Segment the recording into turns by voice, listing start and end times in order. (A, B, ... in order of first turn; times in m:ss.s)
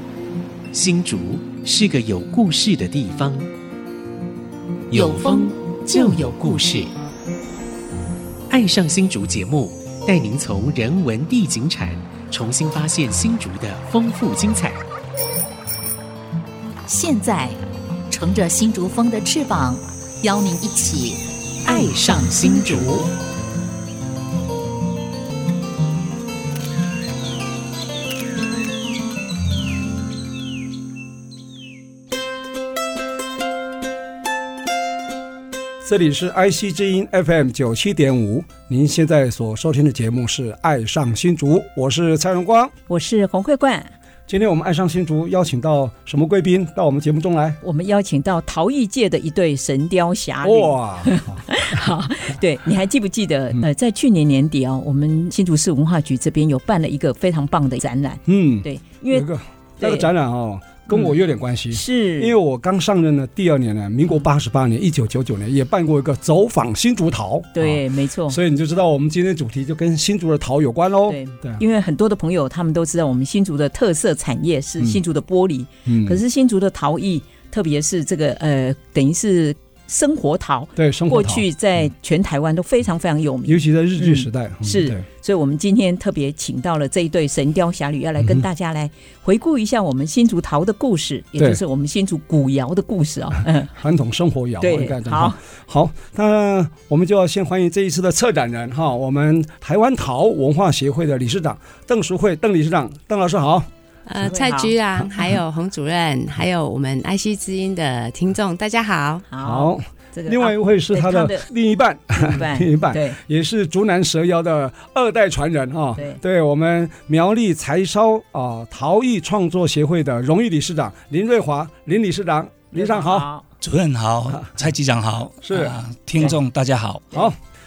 0:00.7-0:03.5 A
0:04.9-0:06.9 A
0:04.9-0:06.8 B
0:08.5-0:14.8 A
0:16.8-0:23.1 B
0:21.6-0:23.1 A
0:35.8-0:42.7 C
0:42.9-0:43.9 D
0:44.3-0:47.6 C
0:47.6-0:59.3 D
0:50.4-0:51.8 C
0:58.3-1:11.6 C
0:59.8-1:00.1 D
1:01.7-1:02.4 D
1:07.5-1:08.4 D
1:11.1-1:33.7 D
1:15.8-1:16.2 C
1:20.8-1:21.4 C
1:23.4-1:25.0 C
1:28.2-1:28.5 C
1:33.4-1:43.7 C
1:34.6-1:35.4 D
1:44.0-1:49.3 E
1:44.2-1:44.7 D
1:49.3-1:51.5 D
1:49.4-2:03.3 C
1:52.2-1:53.2 D
1:56.0-1:56.2 D
2:02.7-2:03.4 D
2:03.6-2:07.2 F
2:04.3-2:04.6 C
2:05.4-2:06.3 C
2:07.1-2:07.4 C